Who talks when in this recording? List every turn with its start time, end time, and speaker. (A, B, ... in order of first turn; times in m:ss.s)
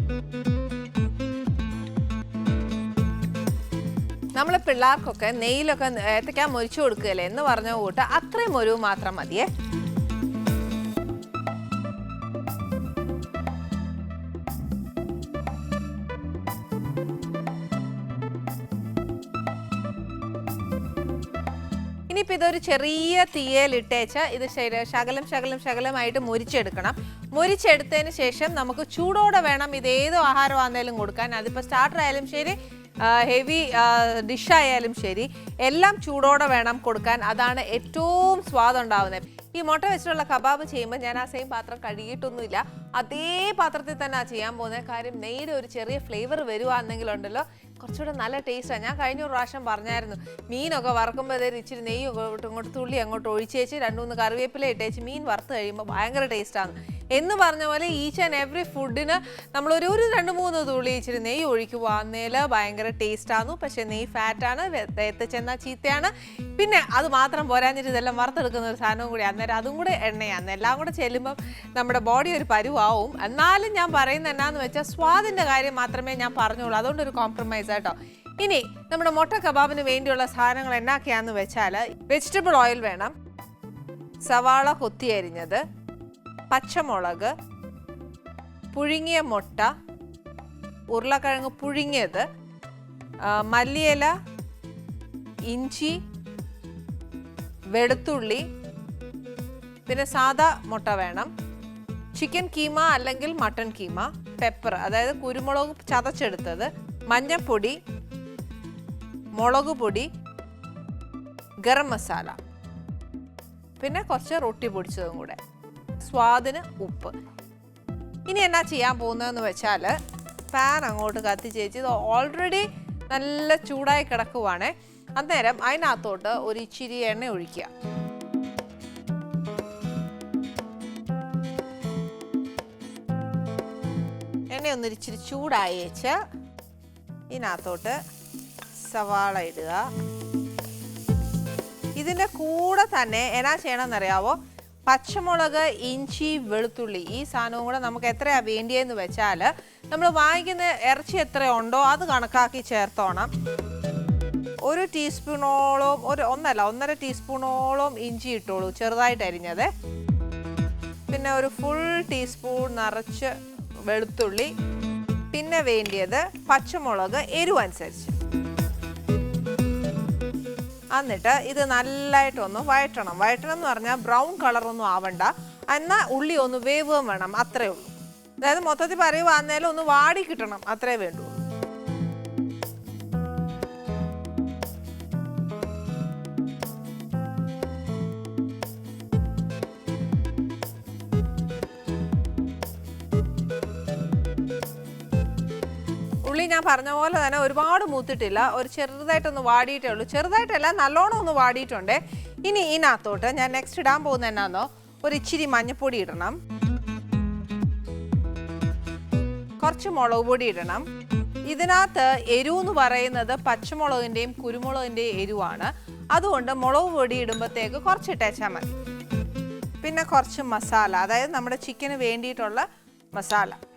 0:04.4-0:09.5 A
0:22.1-1:23.1 A
1:24.3-1:25.6 A
1:26.5-1:27.3 A
1:28.7-1:29.7 A
1:30.9-1:32.2 A
1:33.2-1:34.1 A
1:35.5-1:36.0 A
1:37.7-1:38.4 A
1:39.9-1:41.3 A
1:42.2-1:47.8 A
1:49.4-1:50.1 A
1:51.6-1:52.4 A
1:53.8-1:55.4 A
1:56.0-1:57.1 A
1:58.3-2:00.0 A
2:00.5-2:07.7 A
2:14.5-2:16.2 A
2:17.3-2:18.0 A
2:18.8-2:19.9 A
2:22.0-2:33.3 A
2:34.6-2:39.7 A
2:41.1-2:43.3 A
2:43.9-2:44.5 A
2:45.3-2:48.2 A
2:51.0-3:01.4 A
3:16.2-3:26.4 A
3:29.6-3:30.9 A
3:31.5-3:38.8 A
3:39.8-3:43.6 A